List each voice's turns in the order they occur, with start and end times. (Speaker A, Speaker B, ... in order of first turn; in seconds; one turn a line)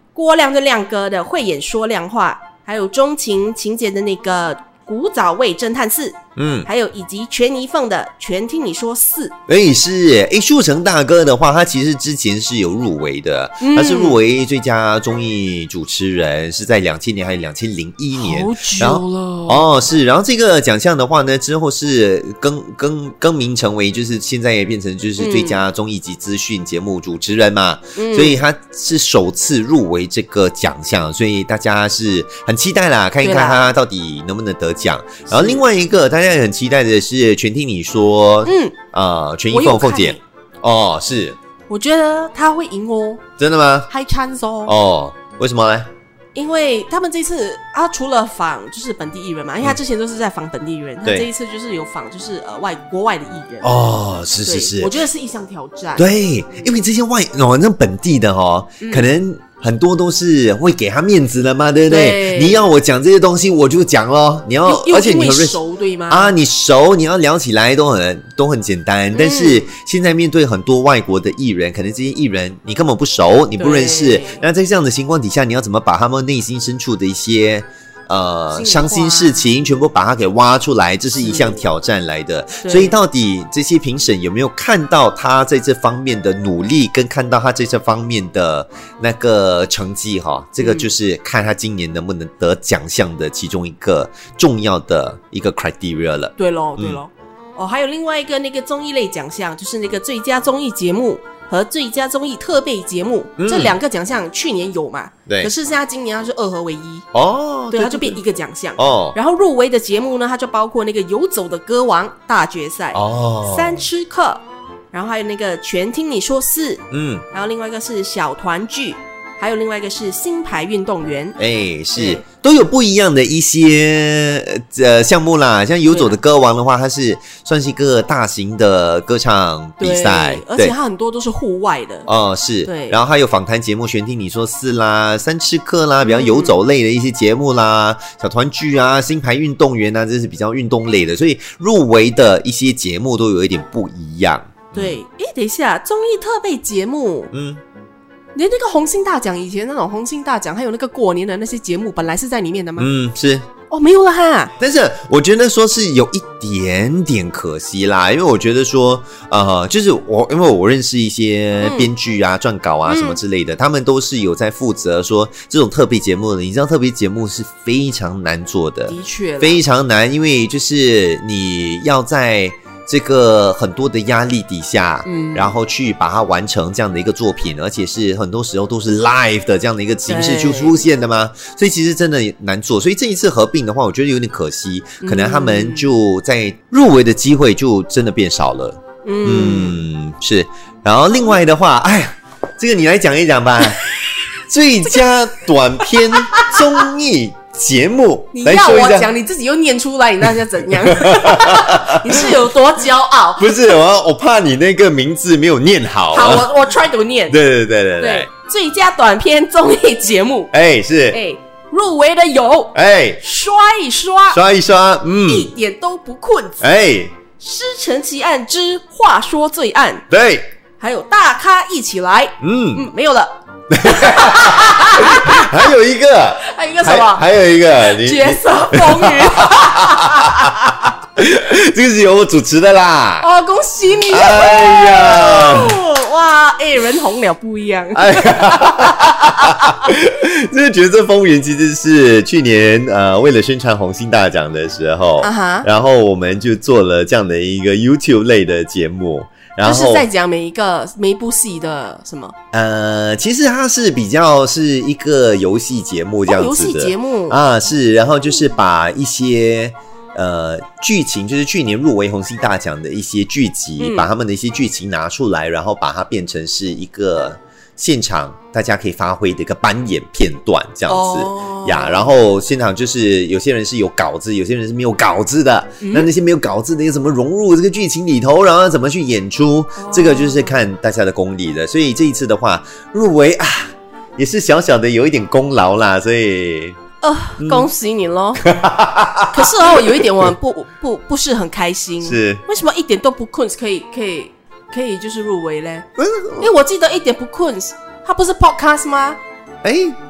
Speaker A: 0.1-9.3
Speaker B: 6.3-6.7
Speaker B: 9.5-41.4
Speaker A: 13.6-14.2
Speaker A: 18.1-19.7
Speaker A: 25.2-25.6
Speaker A: 27.9-28.4
Speaker A: 33.2-33.7
Speaker A: 35.3-35.6
Speaker A: 38.5-38.8
Speaker A: 39.5-40.2
Speaker A: 41.7-43.2
Speaker B: 43.4-43.9
Speaker A: 43.9-44.7
Speaker B: 44.6-45.9
Speaker A: 46.3-53.8
Speaker B: 53.6-54.9
Speaker A: 54.4-56.1
Speaker B: 56.0-97.0
Speaker A: 58.8-59.1
Speaker A: 61.9-62.6
Speaker A: 64.6-66.3
Speaker A: 69.1-69.7
Speaker A: 73.6-74.4
Speaker A: 78.5-79.5
Speaker A: 81.2-81.6
Speaker A: 82.6-83.0
Speaker A: 90.6-90.9
Speaker A: 96.4-107.0
Speaker B: 103.4-103.8
Speaker B: 107.1-108.2
Speaker A: 107.7-121.4
Speaker B: 108.8-109.2
Speaker B: 112.9-113.9
Speaker B: 116.9-117.2
Speaker B: 121.4-130.7
Speaker A: 121.9-122.2
Speaker A: 125.9-126.2
Speaker A: 129.8-132.1
Speaker B: 132.1-145.0
Speaker A: 132.6-133.0
Speaker A: 136.0-136.6
Speaker A: 144.7-147.3
Speaker B: 147.3-147.6
Speaker A: 148.3-152.9
Speaker B: 152.8-153.4
Speaker A: 153.7-154.5
Speaker B: 154.6-193.8
Speaker A: 161.6-161.9
Speaker A: 162.8-163.2
Speaker A: 168.9-169.6
Speaker A: 175.0-175.5
Speaker A: 180.1-180.8
Speaker A: 185.0-185.9
Speaker A: 189.0-189.8
Speaker B: 194.5-199.1
Speaker A: 196.1-196.9
Speaker A: 198.3-203.6
Speaker B: 200.7-202.4
Speaker B: 203.4-206.5
Speaker A: 206.1-207.4
Speaker B: 207.3-208.3
Speaker A: 208.0-210.5
Speaker B: 210.5-211.2
Speaker A: 211.1-214.4
Speaker B: 212.7-213.2
Speaker B: 214.3-215.5
Speaker A: 215.2-216.7
Speaker B: 216.6-217.1
Speaker A: 217.4-220.1
Speaker B: 220.1-220.5
Speaker A: 220.8-225.7
Speaker B: 222.4-222.9
Speaker B: 223.7-233.3
Speaker A: 226.4-230.8
Speaker A: 233.2-239.8
Speaker B: 234.1-235.8
Speaker B: 237.9-250.1
Speaker A: 245.2-245.7
Speaker A: 249.6-252.3
Speaker B: 252.5-286.8
Speaker A: 256.2-257.4
Speaker A: 263.8-264.1
Speaker A: 270.9-272.1
Speaker A: 275.8-276.1
Speaker A: 279.8-280.6
Speaker A: 287.0-288.4
Speaker B: 287.4-287.7
Speaker B: 288.4-289.7
Speaker A: 289.3-295.9
Speaker B: 292.0-292.4
Speaker B: 296.0-296.5
Speaker A: 296.4-299.2
Speaker B: 299.6-300.0